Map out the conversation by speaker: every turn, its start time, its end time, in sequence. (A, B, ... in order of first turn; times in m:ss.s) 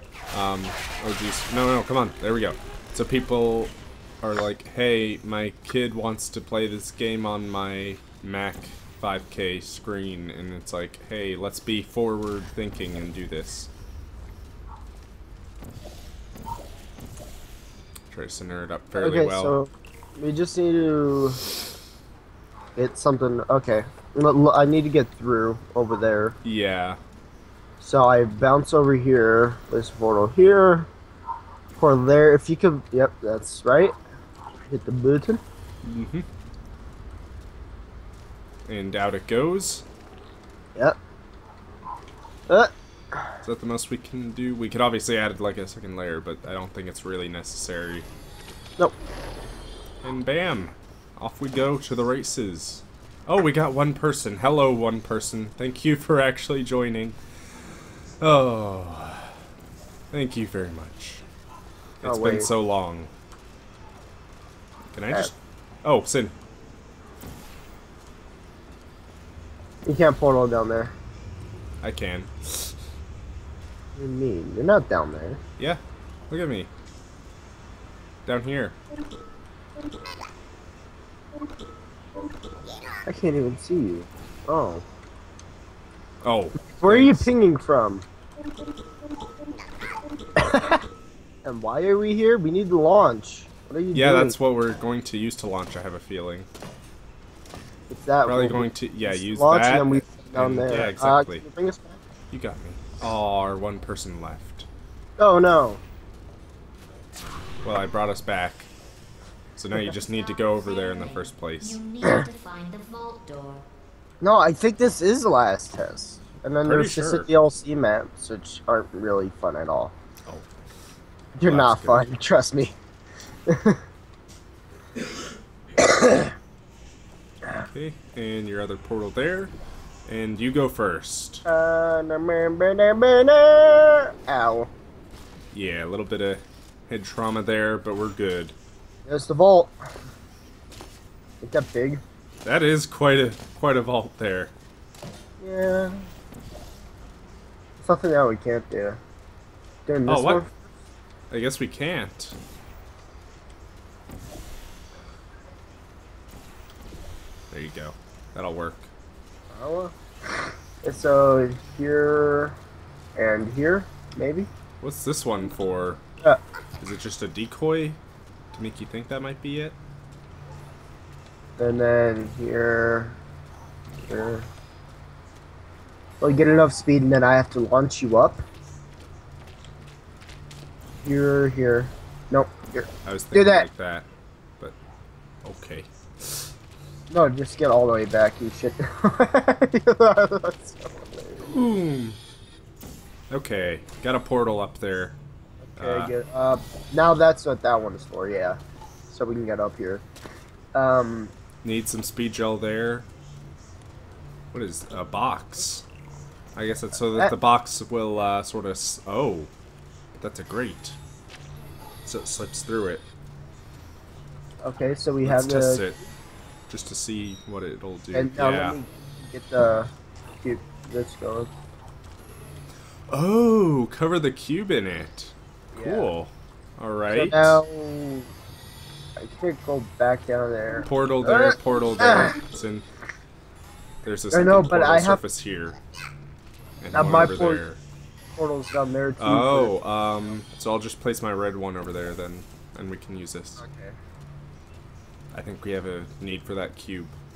0:00.3-0:13.7 A
0:18.1-0:19.6 A
0:19.0-0:21.4 B
0:22.8-0:26.4 B
0:26.4-0:27.0 A
0:27.8-0:30.9 B
0:31.8-0:33.9 B
0:34.7-0:35.4 B
0:35.8-0:36.3 A
0:38.6-0:39.8 A
0:42.5-0:43.3 B
0:43.4-0:48.1 A
0:50.0-0:57.2 A
0:58.2-0:59.4 A
1:00.1-1:01.2 A
1:02.0-1:03.1 A
1:02.0-1:02.5 B
1:04.9-1:06.3 A
1:09.8-1:10.9 B
1:11.8-1:12.8 A
1:14.0-1:15.4 B
1:15.6-1:16.7 A
1:18.2-1:18.8 A
1:23.0-1:24.8 B
1:26.2-1:27.3 A
1:26.8-1:28.0 B
1:30.4-1:30.8 B
1:31.4-1:34.4 B
1:33.9-1:36.5 A
1:37.9-1:42.0 B
1:38.2-1:41.4 A
1:42.3-1:44.7 A
1:45.2-1:45.8 B
1:47.6-1:48.7 A
1:49.6-1:51.8 A
1:50.4-1:53.6 C
1:54.2-1:59.9 B
1:56.6-1:57.3 A
2:00.2-2:00.6 A
2:01.4-2:02.7 B
2:01.4-2:02.1 A
2:03.5-2:03.8 B
2:05.8-2:06.3 B
2:07.6-2:09.5 A
2:10.1-2:11.4 A
2:11.4-2:14.7 B
2:15.5-2:18.6 A
2:19.0-2:19.7 B
2:21.4-2:22.0 B
2:22.4-2:24.5 A
2:25.4-2:26.0 B
2:27.8-2:29.0 B
2:29.8-2:30.5 B
2:30.1-2:30.4 A
2:31.3-2:32.4 A
2:37.5-2:38.9 A
2:39.5-2:40.0 B
2:40.8-2:42.6 B
2:43.2-2:44.5 B
2:44.8-2:46.0 A
2:46.8-2:48.0 A
2:48.5-2:49.8 A
2:51.6-2:53.2 B
2:54.0-2:54.5 B
2:56.2-2:58.4 B
3:01.0-3:03.7 B
3:03.0-3:04.1 A
3:05.4-3:06.4 A
3:07.1-3:11.6 B
3:11.4-3:12.2 A
3:13.3-3:15.2 A
3:15.6-3:18.6 B
3:15.8-3:16.1 A
3:19.1-3:20.0 B
3:20.7-3:21.3 B
3:21.6-3:23.1 A
3:24.5-3:25.8 A
3:26.5-3:29.5 A
3:30.1-3:31.0 A
3:32.0-3:33.0 A
3:34.6-3:35.8 B
3:35.2-3:36.0 A
3:36.7-3:38.8 A
3:38.1-3:41.5 B
3:43.1-3:47.6 A
3:45.7-3:46.1 B
3:47.1-3:48.3 B
3:49.2-3:52.4 B
3:50.8-3:52.8 A
3:54.0-3:55.8 A
3:54.3-3:55.2 B
3:56.8-3:57.8 A
3:56.9-3:57.6 B
3:58.4-3:59.7 B
3:59.2-4:03.6 A
4:03.6-4:04.0 B
4:05.3-4:07.2 A